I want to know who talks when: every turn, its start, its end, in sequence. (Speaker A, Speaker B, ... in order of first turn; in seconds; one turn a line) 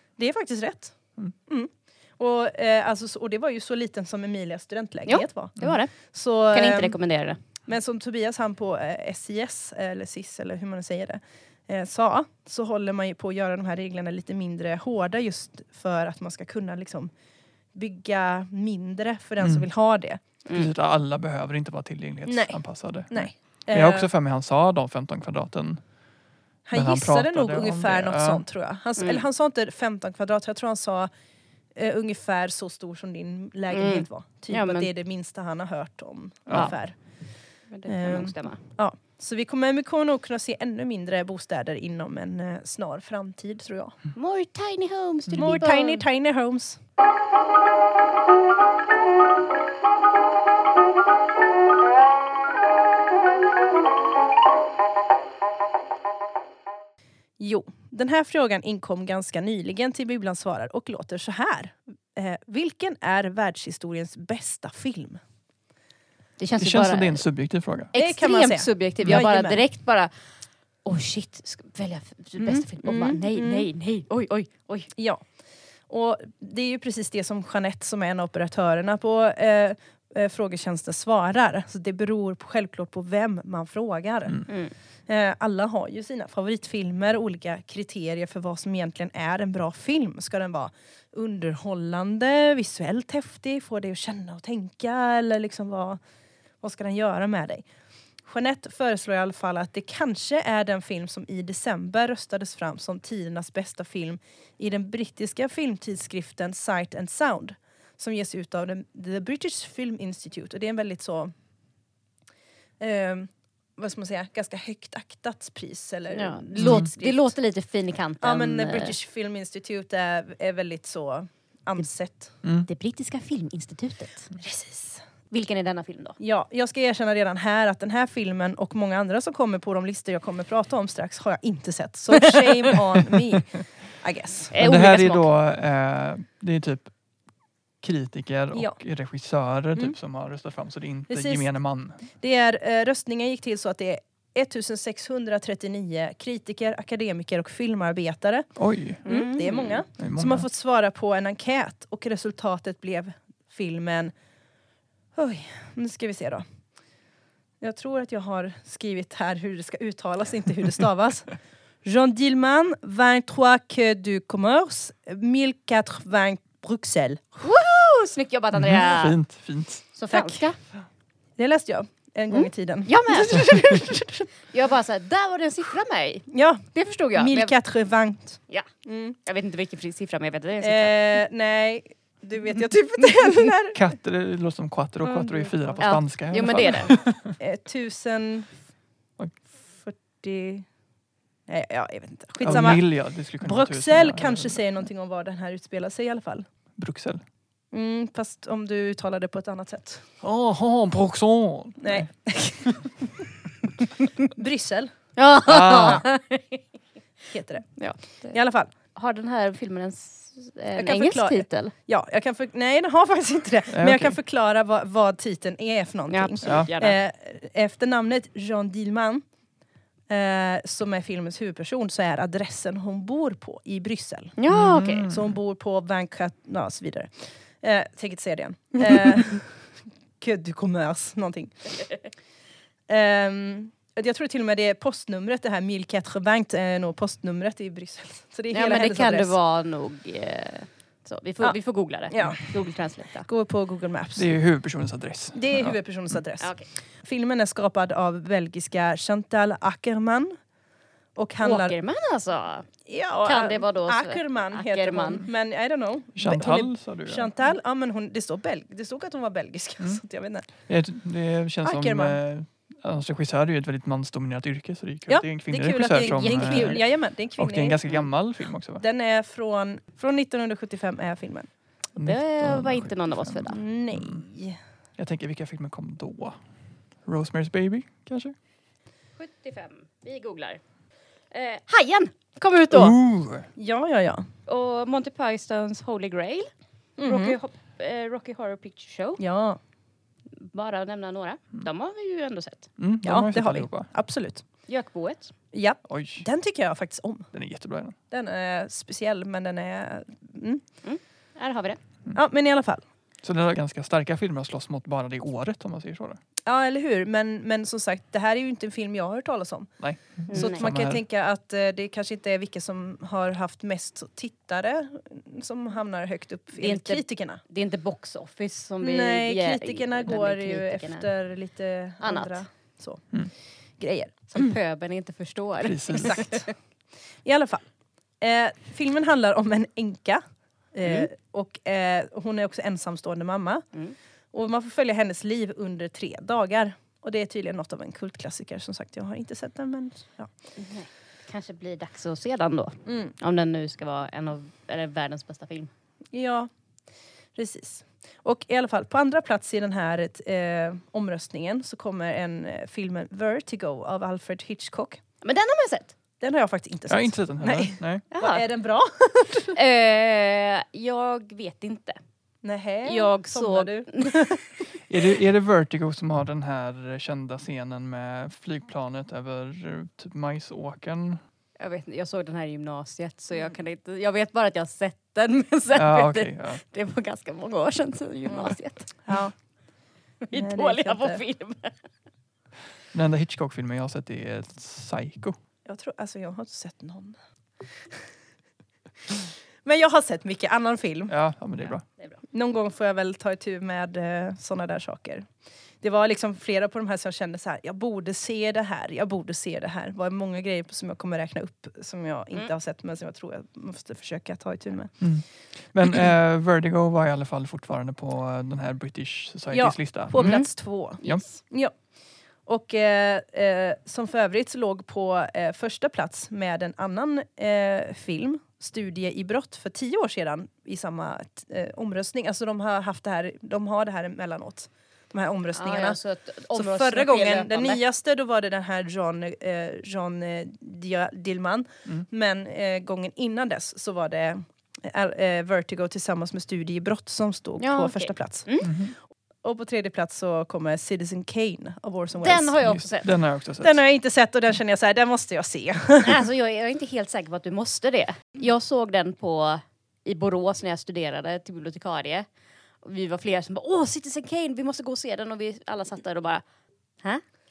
Speaker A: 0.2-0.9
Speaker A: 1.5-7.0
Speaker B: 5.1-7.4
Speaker A: 7.7-17.1
Speaker A: 17.7-20.2
Speaker C: 19.4-19.6
Speaker C: 20.5-25.8
Speaker A: 22.2-24.1
Speaker A: 26.6-31.1
Speaker C: 26.7-28.4
Speaker B: 29.0-29.2
Speaker A: 31.7-37.0
Speaker B: 33.7-34.9
Speaker C: 36.5-36.7
Speaker B: 37.7-38.6
Speaker A: 37.9-43.9
Speaker B: 44.1-46.0
Speaker A: 45.3-46.8
Speaker A: 57.4-65.2
Speaker B: 66.4-67.2
Speaker C: 66.6-67.9
Speaker B: 67.9-70.1
Speaker A: 67.9-69.6
Speaker B: 70.8-74.9
Speaker A: 72.4-73.7
Speaker A: 75.0-75.2
Speaker A: 75.9-84.5
Speaker B: 84.5-84.7
Speaker A: 85.1-96.0
Speaker A: 96.6-97.7
Speaker A: 98.2-111.3
Speaker A: 112.8-117.3
Speaker B: 116.1-118.9
Speaker C: 116.6-116.9
Speaker A: 118.2-122.3
Speaker B: 122.7-124.3
Speaker A: 124.4-125.0
Speaker B: 125.3-126.2
Speaker A: 126.2-134.5
Speaker B: 134.5-135.3
Speaker C: 134.6-136.9
Speaker C: 137.8-142.0
Speaker A: 141.1-141.4
Speaker A: 142.1-148.5
Speaker C: 148.6-149.0
Speaker A: 149.0-154.1
Speaker B: 149.0-149.8
Speaker C: 150.0-150.4
Speaker A: 155.1-156.4
Speaker A: 157.6-161.3
Speaker A: 161.8-167.4
Speaker B: 167.4-169.2
Speaker C: 168.5-169.8
Speaker B: 169.9-170.6
Speaker A: 170.1-170.4
Speaker A: 171.4-174.3
Speaker B: 172.9-177.5
Speaker A: 176.3-179.2
Speaker B: 179.2-180.9
Speaker A: 180.6-183.8
Speaker C: 183.7-187.3
Speaker A: 185.0-185.8
Speaker B: 185.8-186.9
Speaker A: 187.4-188.5
Speaker A: 189.7-190.7
Speaker A: 191.5-192.9
Speaker C: 192.4-194.6
Speaker A: 193.4-196.4
Speaker C: 196.8-197.2
Speaker A: 197.7-200.0
Speaker C: 200.2-202.1
Speaker A: 201.8-202.8
Speaker A: 204.2-204.9
Speaker B: 205.2-206.6
Speaker C: 205.4-206.0
Speaker A: 207.3-207.7
Speaker B: 207.8-208.3
Speaker A: 208.3-208.7
Speaker B: 208.9-211.7
Speaker A: 210.7-219.2
Speaker C: 213.7-214.1
Speaker B: 216.1-217.0
Speaker C: 216.4-216.7
Speaker A: 220.1-224.4
Speaker B: 224.4-225.1
Speaker C: 224.5-225.3
Speaker A: 225.1-231.7
Speaker A: 232.9-239.3
Speaker B: 238.5-243.3
Speaker A: 242.1-242.5
Speaker A: 243.2-244.3
Speaker C: 244.2-245.8
Speaker A: 245.3-250.3
Speaker B: 246.4-246.7
Speaker A: 251.2-251.7
Speaker B: 251.4-252.7
Speaker A: 252.8-260.4
Speaker B: 253.2-255.3
Speaker C: 256.1-257.3
Speaker C: 260.7-268.8
Speaker A: 261.6-262.2
Speaker A: 265.1-267.8
Speaker B: 266.0-266.8
Speaker A: 268.8-271.5
Speaker C: 271.9-274.2
Speaker B: 272.0-273.6
Speaker A: 273.5-274.6
Speaker C: 275.0-276.4
Speaker C: 277.0-278.3
Speaker B: 279.2-280.6
Speaker B: 281.3-282.9
Speaker C: 282.7-283.5
Speaker A: 283.6-284.3
Speaker B: 284.5-289.2
Speaker A: 287.0-287.4
Speaker A: 289.2-289.6
Speaker B: 290.4-292.7
Speaker C: 292.8-293.9
Speaker A: 293.0-294.4
Speaker B: 294.7-295.3
Speaker A: 295.5-297.3
Speaker C: 295.9-296.2
Speaker C: 297.3-297.9
Speaker A: 298.1-300.6
Speaker B: 300.8-301.8
Speaker A: 302.1-302.8
Speaker C: 303.2-306.2
Speaker A: 306.4-309.7
Speaker C: 309.8-311.0
Speaker B: 310.3-310.6
Speaker A: 310.3-317.4
Speaker B: 316.6-321.1
Speaker A: 318.8-323.0
Speaker B: 322.0-322.4
Speaker A: 323.8-324.5
Speaker B: 324.3-326.4
Speaker C: 325.6-326.2
Speaker A: 325.9-326.5
Speaker A: 327.2-327.6
Speaker A: 328.2-333.6
Speaker A: 334.3-340.3
Speaker B: 340.6-345.7
Speaker A: 342.9-343.1
Speaker A: 346.1-346.5
Speaker A: 347.3-355.0
Speaker B: 355.2-355.9
Speaker A: 356.2-359.6
Speaker C: 356.9-358.0
Speaker B: 358.1-358.4
Speaker B: 359.5-362.0
Speaker A: 362.4-364.5
Speaker B: 362.8-364.3
Speaker C: 364.9-371.2
Speaker B: 371.6-378.9
Speaker C: 375.7-376.6
Speaker A: 378.3-379.3
Speaker B: 380.3-381.7
Speaker A: 380.3-381.2
Speaker C: 382.9-385.4
Speaker A: 385.6-387.2
Speaker A: 389.6-391.1
Speaker C: 391.1-391.8
Speaker A: 392.3-395.2
Speaker A: 395.8-405.0
Speaker C: 405.0-410.4
Speaker A: 409.5-411.7
Speaker B: 410.2-410.5
Speaker A: 412.4-426.0
Speaker B: 425.6-427.8
Speaker A: 426.5-438.7
Speaker B: 437.6-438.7
Speaker C: 438.6-438.9
Speaker A: 439.4-442.5
Speaker B: 442.2-443.1
Speaker C: 442.6-443.8
Speaker A: 443.6-446.2
Speaker B: 446.0-452.2
Speaker B: 452.8-456.4